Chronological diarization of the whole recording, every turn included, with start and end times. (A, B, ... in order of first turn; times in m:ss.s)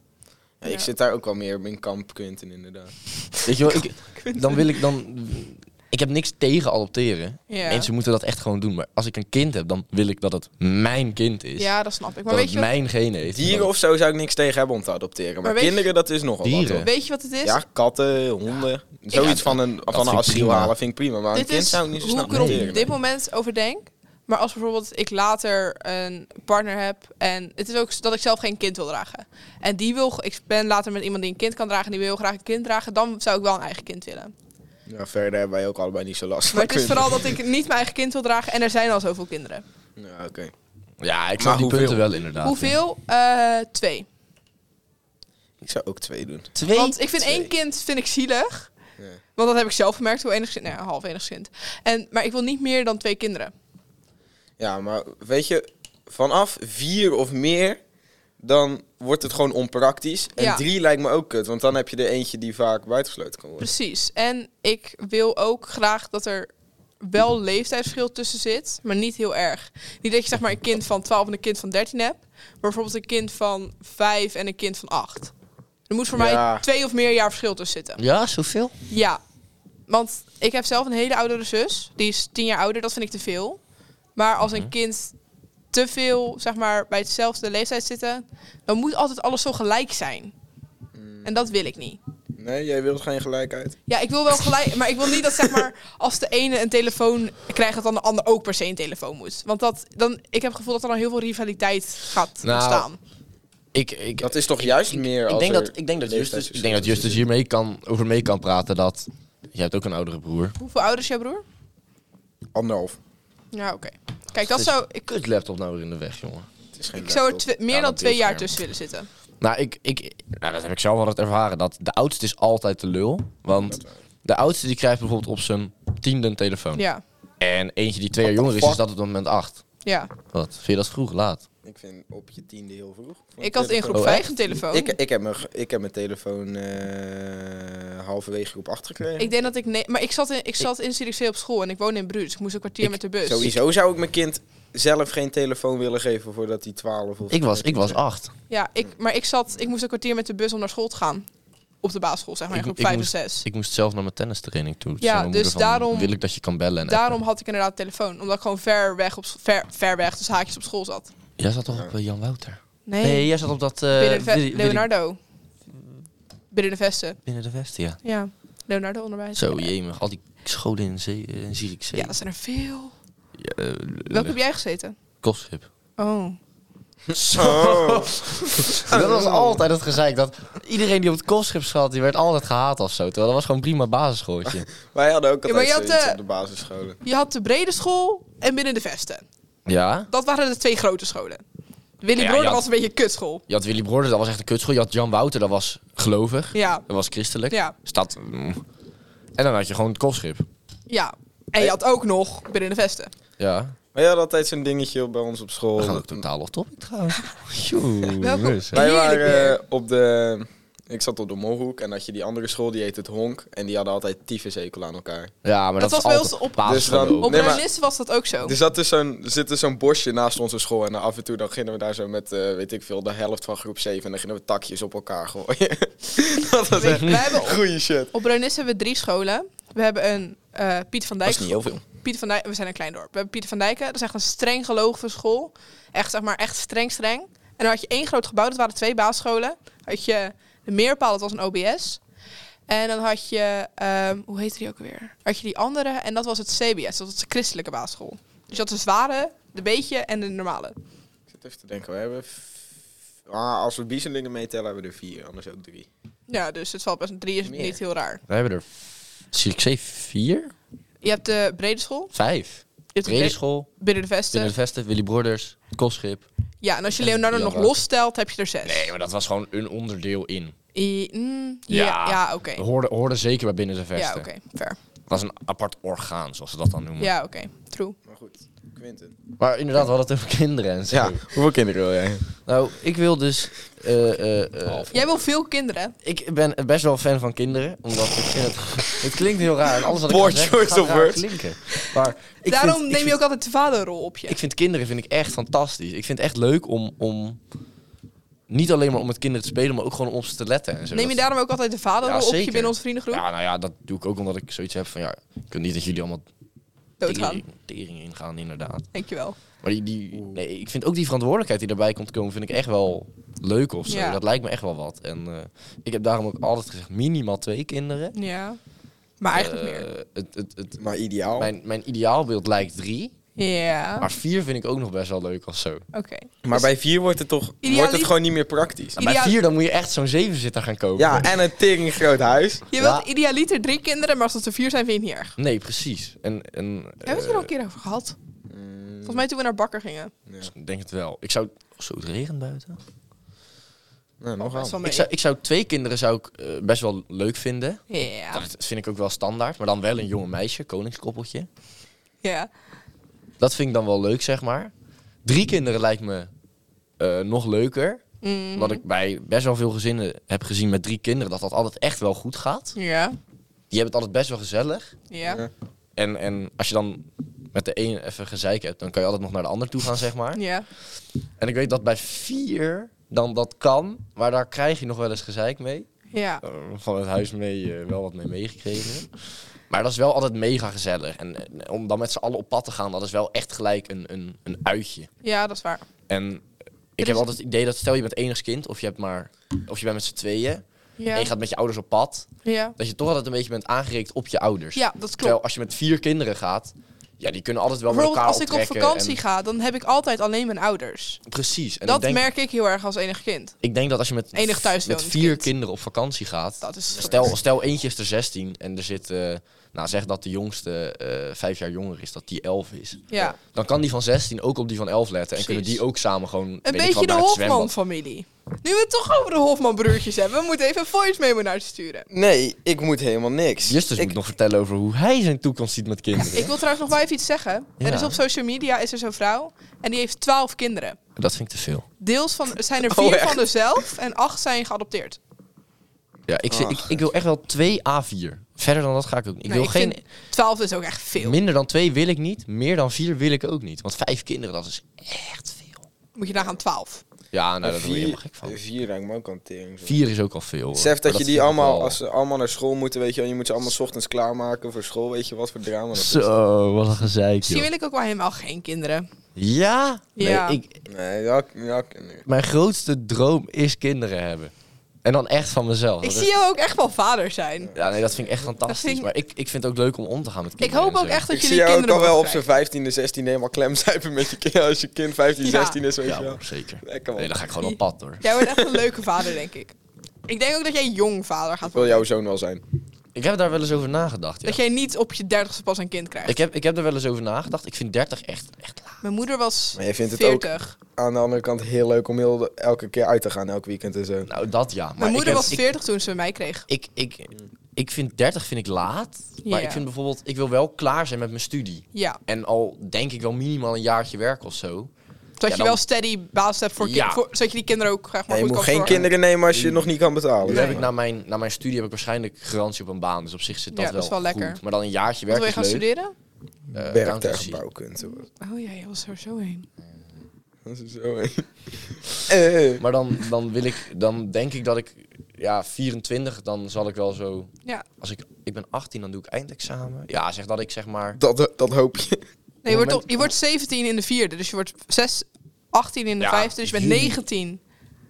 0:00.6-0:03.5 A
0:03.4-0:11.7 B
0:04.2-0:04.7 C
0:07.5-0:07.9 C
0:11.6-0:12.7 C
0:12.3-0:13.7 B
0:13.3-0:16.9 A
0:15.4-0:15.9 C
0:16.4-0:16.9 B
0:16.8-0:17.6 C
0:17.4-0:22.9 A
0:19.1-0:20.7 B
0:21.3-0:34.3 C
0:22.3-0:22.7 B
0:34.9-0:37.3 A
0:36.5-0:39.6 C
0:40.0-0:40.5 A
0:41.0-0:42.8 B
0:41.4-0:42.1 A
0:42.4-0:44.1 C
0:45.6-0:46.5 A
0:46.5-0:47.4 B
0:46.7-0:48.7 C
0:49.4-0:53.5 C
0:54.6-0:57.8 A
0:58.4-1:03.7 A
1:00.4-1:00.6 C
1:03.6-1:06.5 C
1:07.0-1:15.3 C
1:15.9-1:18.0 C
1:16.1-1:16.6 A
1:18.0-1:18.7 B
1:18.9-1:19.2 C
1:19.9-1:23.6 C
1:24.2-1:25.1 C
1:24.4-1:24.7 B
1:25.7-1:30.3 C
1:31.0-1:31.4 A
1:31.2-1:32.0 C
1:32.4-1:33.7 A
1:33.9-1:43.0 C
1:35.3-1:35.6 A
1:42.4-1:42.9 B
1:43.7-1:50.6 B
1:44.2-1:47.2 A
1:50.6-1:51.4 C
1:52.5-1:53.0 A
1:53.5-1:54.9 C
1:54.3-1:56.5 B
1:56.7-1:57.5 A
1:57.0-1:59.1 C
1:57.7-1:58.6 B
1:59.4-2:06.8 B
2:06.7-2:07.0 C
2:07.4-2:09.6 B
2:08.3-2:08.8 A
2:09.8-2:10.1 C
2:10.3-2:11.4 B
2:11.6-2:19.3 A
2:13.4-2:14.9 C
2:13.9-2:14.3 B
2:19.2-2:23.5 C
2:22.8-2:23.6 B
2:23.3-2:28.0 A
2:27.3-2:28.3 B
2:28.5-2:31.3 C
2:31.8-2:33.4 C
2:32.5-2:37.2 B
2:35.0-2:36.1 C
2:36.8-2:41.1 C
2:41.4-2:44.9 B
2:42.9-2:43.3 C
2:43.9-2:45.2 C
2:46.5-2:47.2 C
2:47.2-2:48.0 B
2:48.0-2:49.7 C
2:49.4-2:52.2 B
2:51.9-2:52.9 C
2:53.4-2:54.4 B
2:54.1-2:55.0 C
2:55.2-2:55.7 B
2:56.0-2:56.4 C
2:57.1-3:04.7 B
2:57.3-2:59.6 A
3:04.5-3:07.0 A
3:05.5-3:06.2 C
3:07.0-3:09.2 C
3:09.7-3:10.1 B
3:10.1-3:11.4 C
3:12.0-3:13.4 C
3:12.2-3:12.7 B
3:13.5-3:18.6 B
3:16.5-3:16.8 C
3:19.4-3:20.5 B
3:20.9-3:23.1 C
3:23.4-3:23.8 B
3:23.9-3:26.2 A
3:25.8-3:28.8 B
3:28.2-3:29.6 C
3:28.7-3:35.3 A
3:35.4-3:37.6 B
3:35.8-3:38.5 C
3:36.6-3:37.6 A
3:38.4-3:48.1 A
3:46.7-4:02.0 C
3:46.8-3:47.3 B
3:51.2-3:51.8 A
4:02.7-4:10.8 C
4:11.3-4:12.7 A
4:13.3-4:15.9 A
4:16.3-4:18.2 C
4:17.4-4:17.8 A
4:18.3-4:20.5 B
4:21.0-4:22.1 C
4:22.1-4:23.7 B
4:23.0-4:24.5 C
4:24.3-4:26.2 B
4:26.6-4:28.9 C
4:27.0-4:27.8 B
4:28.6-4:30.5 B
4:30.7-4:32.6 C
4:31.7-4:34.3 B
4:34.0-4:34.8 C
4:35.1-4:37.1 B
4:37.0-4:38.0 C
4:38.1-4:39.2 A
4:39.4-4:41.2 B
4:40.9-4:42.3 A
4:42.5-4:45.0 B
4:44.9-4:46.0 C
4:46.0-4:53.2 B
4:49.9-4:51.3 A
4:52.4-4:54.4 C
4:54.3-4:57.4 B
4:58.5-5:01.2 B
5:00.9-5:03.2 C
5:02.0-5:06.2 B
5:07.0-5:07.4 C
5:07.0-5:08.9 B
5:08.9-5:09.4 C
5:09.6-5:18.1 B
5:13.9-5:14.2 C
5:18.1-5:18.6 C
5:19.2-5:19.9 C
5:19.3-5:20.8 B
5:20.8-5:21.5 A
5:21.4-5:23.1 B
5:23.4-5:24.1 C
5:24.0-5:25.8 B
5:25.9-5:26.7 C
5:26.4-5:29.0 A
5:27.6-5:28.1 C
5:29.0-5:29.4 C
5:29.0-5:31.3 B
5:31.0-5:32.6 A
5:32.7-5:35.3 C
5:32.8-5:33.0 B
5:35.4-5:37.5 B
5:37.0-5:38.1 C
5:38.5-5:39.2 A
5:39.0-5:40.1 C
5:40.4-5:42.8 B
5:44.2-5:44.8 A
5:44.4-5:45.1 C
5:44.8-5:47.8 B
5:47.9-5:48.4 C
5:48.3-5:51.5 B
5:52.2-5:52.5 C
5:53.4-5:54.7 B
5:55.2-5:56.3 B
5:57.0-5:58.0 B
5:58.2-5:58.8 C
5:58.6-6:02.8 B
6:02.8-6:03.2 C
6:03.7-6:04.9 B
6:05.1-6:05.4 C
6:06.0-6:10.4 B
6:10.3-6:10.6 C
6:11.4-6:15.9 B
6:16.1-6:16.4 C
6:16.4-6:19.1 B
6:19.7-6:25.1 B
6:25.2-6:25.8 C
6:26.1-6:26.4 B
6:27.0-6:39.2 B
6:27.0-6:27.2 C
6:31.0-6:31.3 C
6:32.4-6:32.8 C
6:34.8-6:35.4 C
6:37.9-6:41.2 C
6:41.3-6:42.2 B
6:41.8-6:43.6 C
6:43.6-6:57.7 B
6:44.3-6:45.5 C
6:46.6-6:47.3 C
6:53.1-6:53.4 C
6:55.4-6:55.8 C
6:56.6-7:02.1 C
7:02.1-7:04.1 A
7:03.6-7:06.5 B
7:06.3-7:11.0 C
7:07.8-7:08.2 B
7:11.2-7:11.9 B
7:12.0-7:15.2 C
7:12.8-7:13.5 A
7:16.3-7:20.0 B
7:16.5-7:17.0 A
7:19.4-7:21.4 C
7:21.2-7:25.9 B
7:26.1-7:27.0 C
7:27.3-7:28.6 B
7:27.6-7:30.0 A
7:29.8-7:32.0 B
7:30.8-7:36.3 A
7:35.9-7:37.7 B
7:37.4-7:39.1 C
7:39.4-7:40.8 B
7:40.2-7:40.6 C
7:40.9-7:42.2 A
7:42.2-7:44.5 B
7:45.0-7:46.3 B
7:46.0-7:47.7 C
7:47.8-7:51.2 B
7:48.6-7:49.1 C
7:50.6-7:52.4 C
7:51.3-7:57.3 A
7:55.4-7:55.8 C
7:56.0-7:58.2 B
7:57.6-7:59.8 C
8:00.3-8:02.0 C
8:01.6-8:02.6 A
8:03.1-8:04.6 B
8:04.4-8:06.4 C
8:06.2-8:09.0 B
8:09.0-8:10.7 C
8:09.8-8:14.3 A
8:14.3-8:15.7 B
8:15.0-8:16.6 C
8:16.7-8:24.9 B
8:19.4-8:19.8 C
8:21.9-8:22.2 C
8:25.4-8:29.0 C
8:25.5-8:25.8 B
8:26.8-8:27.2 B
8:28.3-8:30.9 A
8:28.9-8:29.8 B
8:30.4-8:35.9 B
8:30.5-8:30.8 C
8:33.7-8:34.6 C
8:35.3-8:36.1 C
8:36.7-8:37.6 B
8:36.8-8:38.2 A
8:38.0-8:39.7 C
8:40.6-8:41.4 A
8:42.1-8:42.8 A
8:42.8-8:51.2 B
8:51.2-8:52.2 A
8:52.6-8:57.6 C
8:52.6-8:53.3 B
8:56.2-8:57.2 B